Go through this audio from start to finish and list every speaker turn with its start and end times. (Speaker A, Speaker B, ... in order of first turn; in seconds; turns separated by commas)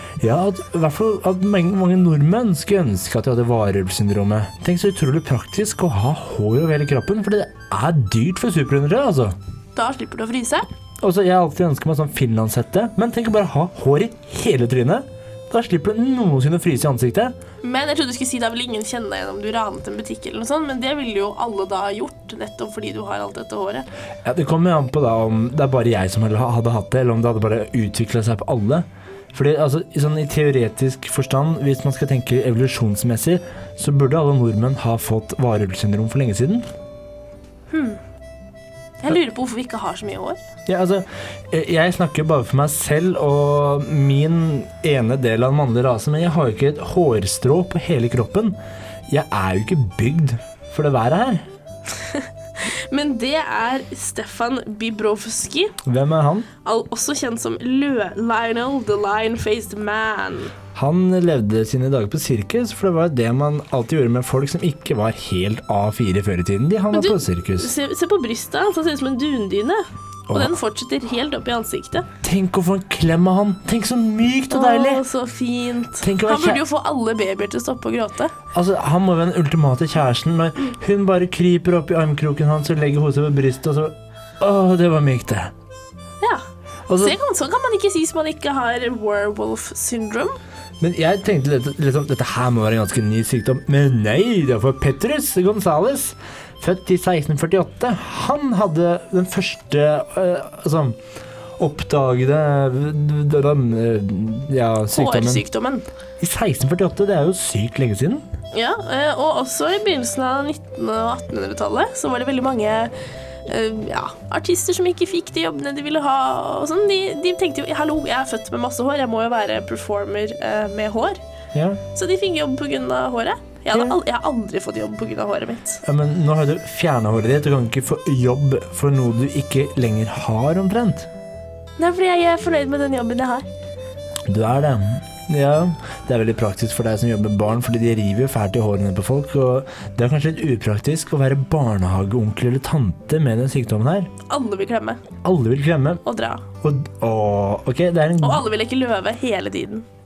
Speaker A: 0.2-9.3, Speaker B: 9.7-10.7, Speaker A: 11.0-17.3, Speaker B: 17.6-23.9, Speaker A: 24.2-36.6, Speaker B: 37.7-38.0, Speaker B: 39.0-40.4, Speaker A: 40.6-48.5, Speaker A: 49.1-51.5, Speaker B: 52.0-55.7, Speaker A: 55.8-56.5, Speaker B: 56.6-60.5, Speaker A: 60.7-67.7, Speaker B: 66.9-72.0, Speaker A: 70.3-70.5, Speaker A: 72.2-75.0, Speaker B: 74.5-78.3, Speaker A: 76.0-76.6, Speaker A: 78.5-85.5, Speaker A: 86.9-87.2, Speaker B: 87.0-90.4, Speaker A: 90.8-101.0, Speaker A: 101.6-105.4, Speaker B: 104.9-105.9, Speaker A: 106.2-108.2, Speaker B: 108.5-112.9, Speaker B: 113.5-121.2, Speaker A: 121.5-121.8, Speaker B: 121.9-125.8, Speaker A: 125.8-131.1, Speaker B: 131.8-133.4, Speaker A: 134.3-144.1, Speaker B: 144.3-145.0, Speaker A: 145.2-146.0, Speaker B: 146.0-146.4, Speaker A: 146.6-148.4, Speaker B: 148.2-149.8